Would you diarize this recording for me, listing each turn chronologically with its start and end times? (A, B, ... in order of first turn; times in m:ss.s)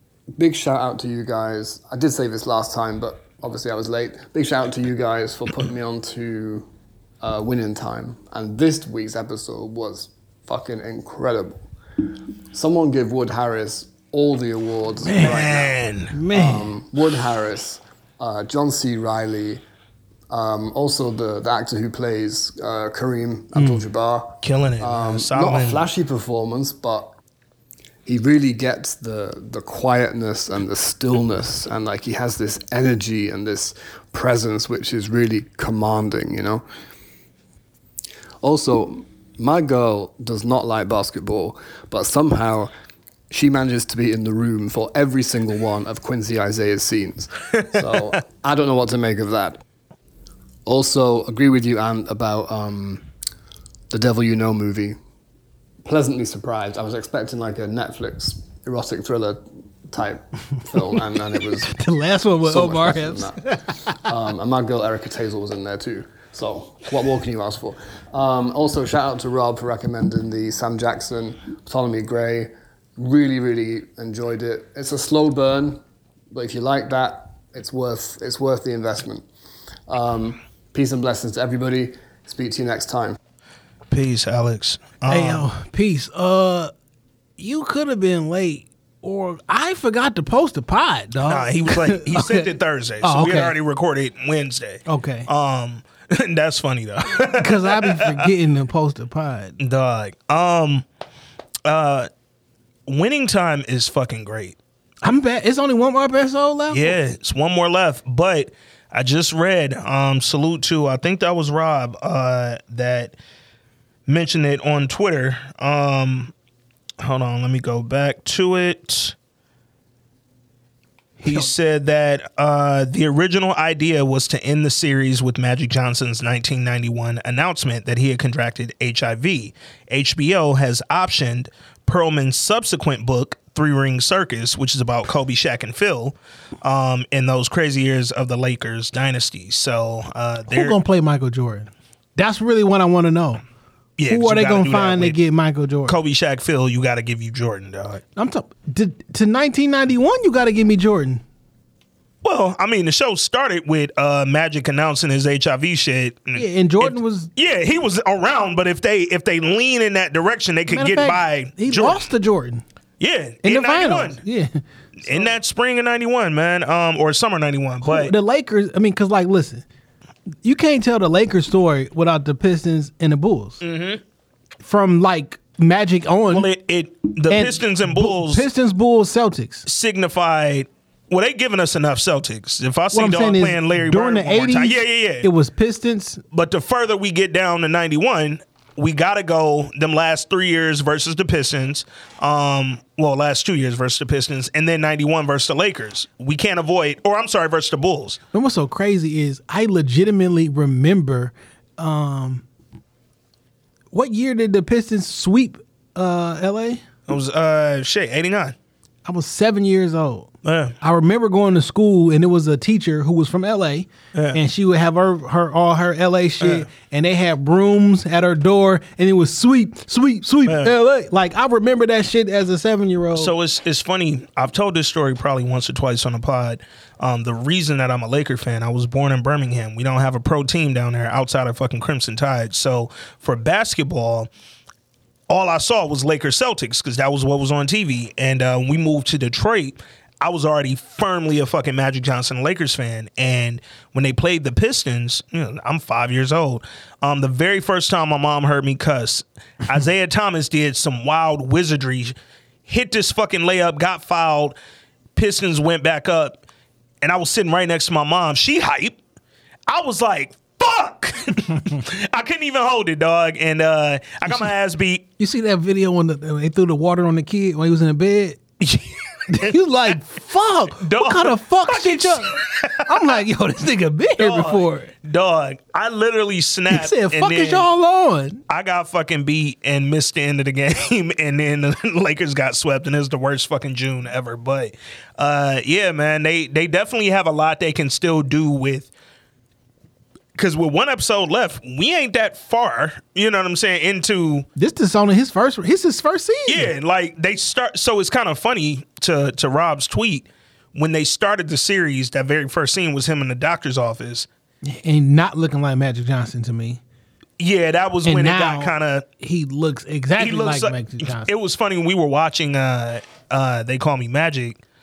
0:00.4-0:06.7 A
0:07.2-0:11.7 A
0:12.5-0:19.6 A
0:15.0-0:15.4 B
0:15.2-0:16.1 C
0:16.1-0:16.7 B
0:20.3-0:27.1 A
0:23.5-0:23.8 B
0:24.4-0:25.8 C
0:28.0-0:36.6 A
0:38.4-0:42.7 A
0:43.3-0:49.6 A
0:50.6-0:53.0 A
0:53.9-0:55.0 A
0:55.8-1:01.7 A
1:01.6-1:04.0 B
1:02.4-1:15.8 A
1:16.3-1:19.3 A
1:19.9-1:23.2 A
1:23.9-1:25.4 C
1:25.1-1:26.7 B
1:27.4-1:32.5 B
1:31.3-1:38.3 C
1:33.0-1:33.5 B
1:34.9-1:35.3 B
1:37.4-1:39.5 B
1:39.6-1:40.8 C
1:41.6-1:42.1 C
1:42.9-1:44.6 C
1:45.0-1:47.0 B
1:46.7-1:53.1 C
1:54.1-1:56.3 C
1:57.0-1:59.1 C
2:01.2-2:01.5 B
2:01.2-2:20.8 C
2:20.5-2:23.4 B
2:24.0-2:25.2 C
2:24.1-2:26.0 B
2:25.8-2:28.0 C
2:28.2-2:31.2 B
2:32.2-2:42.0 C
2:36.3-2:37.3 B
2:40.7-2:42.6 B
2:43.0-2:44.2 C
2:43.4-2:45.4 B
2:45.0-2:48.1 C
2:47.8-2:49.6 B
2:50.4-2:53.6 B
2:53.6-2:54.0 C
2:54.6-2:56.5 B
2:56.3-2:58.4 C
2:57.3-2:59.6 B
2:59.6-3:05.3 C
3:02.9-3:06.2 B
3:06.3-3:18.2 C
3:18.3-3:22.4 B
3:23.9-3:26.8 B
3:27.1-3:28.5 C
3:29.0-3:30.3 B
3:30.4-3:30.7 C
3:30.8-3:43.3 B
3:34.1-3:34.4 C
3:36.4-3:36.6 C
3:40.4-3:40.7 C
3:43.2-3:54.3 C
3:55.3-4:12.1 C
4:12.7-4:14.6 C
4:15.1-4:16.4 C
4:17.0-4:19.0 C
4:19.7-4:25.0 C
4:24.2-4:24.5 B
4:25.2-4:28.4 B
4:28.6-4:29.6 C
4:29.3-4:34.9 B
4:30.8-4:33.1 C
4:34.2-4:37.6 C
4:36.7-4:38.4 B
4:38.5-4:48.9 C
4:50.3-4:54.5 C
4:54.6-4:56.7 B
4:56.5-5:04.3 C
5:04.6-5:06.8 B
5:07.4-5:09.0 C
5:08.0-5:11.3 B
5:10.2-5:14.6 C